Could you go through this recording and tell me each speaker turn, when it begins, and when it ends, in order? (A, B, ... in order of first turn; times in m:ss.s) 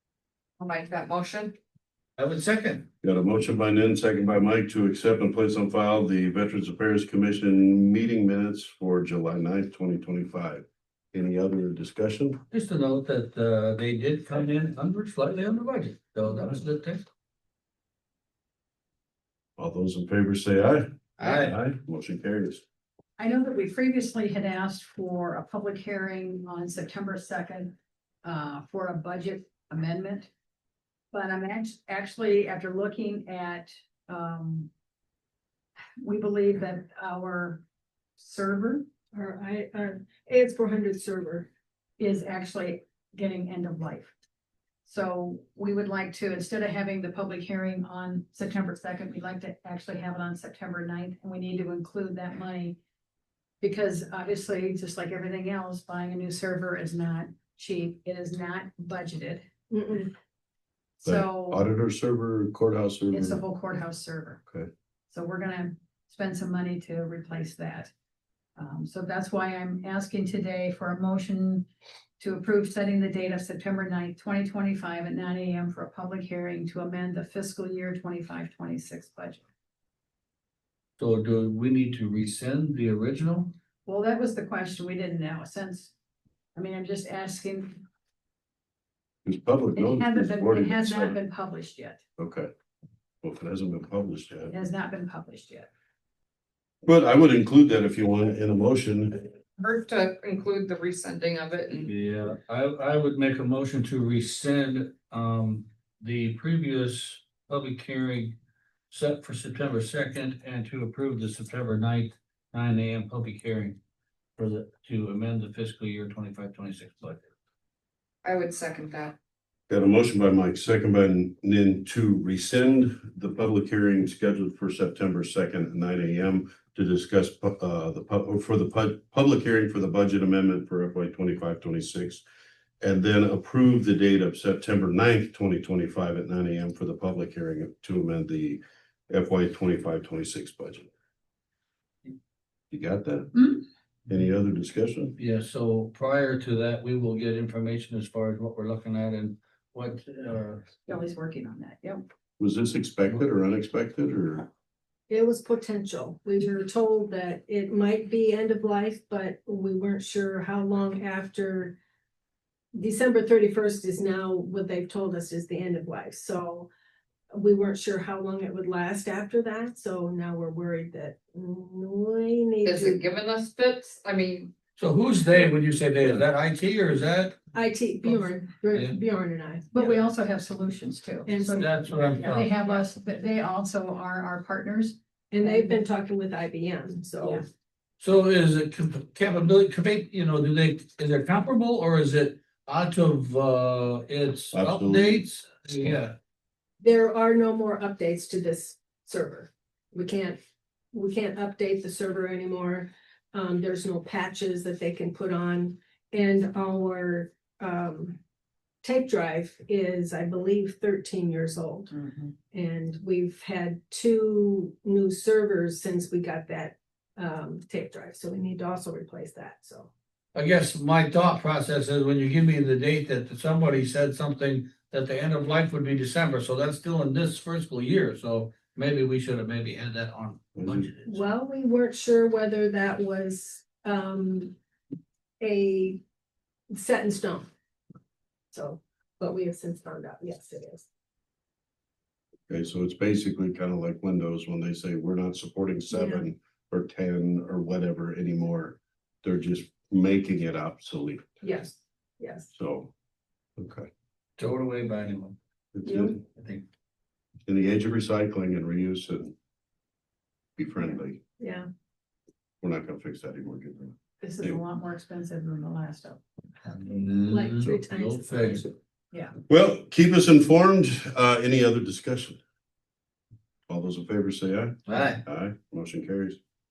0:00.6-0:01.6 A
0:02.2-0:02.9 B
0:03.0-0:12.4 C
0:12.5-0:17.0 B
0:16.2-0:16.5 C
0:19.6-0:22.6 C
0:21.2-0:21.6 B
0:23.2-0:30.3 D
0:31.1-0:34.7 D
0:36.0-0:37.6 D
0:38.2-0:38.8 D
0:39.1-0:41.5 E
0:42.0-0:44.1 D
0:44.8-0:52.8 D
0:53.6-0:59.4 D
0:59.7-1:00.1 E
1:01.0-1:01.6 D
1:01.0-1:03.4 C
1:03.1-1:04.4 D
1:05.1-1:07.9 D
1:08.6-1:11.7 D
1:12.2-1:19.4 D
1:21.0-1:23.5 B
1:23.8-1:25.9 D
1:26.5-1:27.8 D
1:29.2-1:31.2 C
1:29.8-1:32.0 D
1:32.2-1:32.5 C
1:33.2-1:34.5 C
1:34.5-1:35.7 D
1:36.8-1:39.2 C
1:39.6-1:41.9 A
1:41.8-1:48.3 B
1:48.9-1:53.8 B
1:54.4-1:57.2 B
1:58.2-1:59.2 A
1:59.7-2:12.2 C
2:12.8-2:20.9 C
2:22.7-2:25.2 C
2:25.2-2:30.6 B
2:30.8-2:32.0 D
2:32.4-2:34.5 C
2:35.1-2:41.8 E
2:42.7-2:46.7 E
2:47.3-2:53.0 E
2:52.6-2:54.5 A
2:54.8-2:57.4 B
2:57.5-3:00.0 E
2:58.7-2:59.0 B
2:59.7-3:05.8 D
3:01.2-3:02.8 E
3:01.6-3:02.4 B
3:05.3-3:07.4 E
3:08.0-3:16.1 B
3:14.5-3:15.2 C
3:16.8-3:20.4 E
3:20.9-3:28.2 E
3:28.8-3:31.9 E
3:32.5-3:39.9 E
3:40.3-3:51.2 B
3:50.6-3:50.9 C
3:51.0-3:54.5 E
3:55.4-3:56.0 E
3:56.7-3:57.5 E
3:58.5-4:00.9 E
4:02.5-4:11.2 C
4:05.9-4:06.2 E
4:11.4-4:12.5 E
4:12.6-4:12.9 C
4:13.6-4:13.9 C
4:14.4-4:15.4 B
4:15.7-4:16.2 C
4:15.8-4:16.1 E
4:16.3-4:16.6 B
4:17.4-4:19.3 C
4:20.6-4:21.2 C
4:21.4-4:21.7 E
4:22.6-4:24.6 C
4:24.2-4:26.2 D
4:26.6-4:28.7 B
4:27.3-4:28.7 E
4:29.5-4:32.4 C
4:33.7-4:36.4 C
4:34.9-4:35.2 B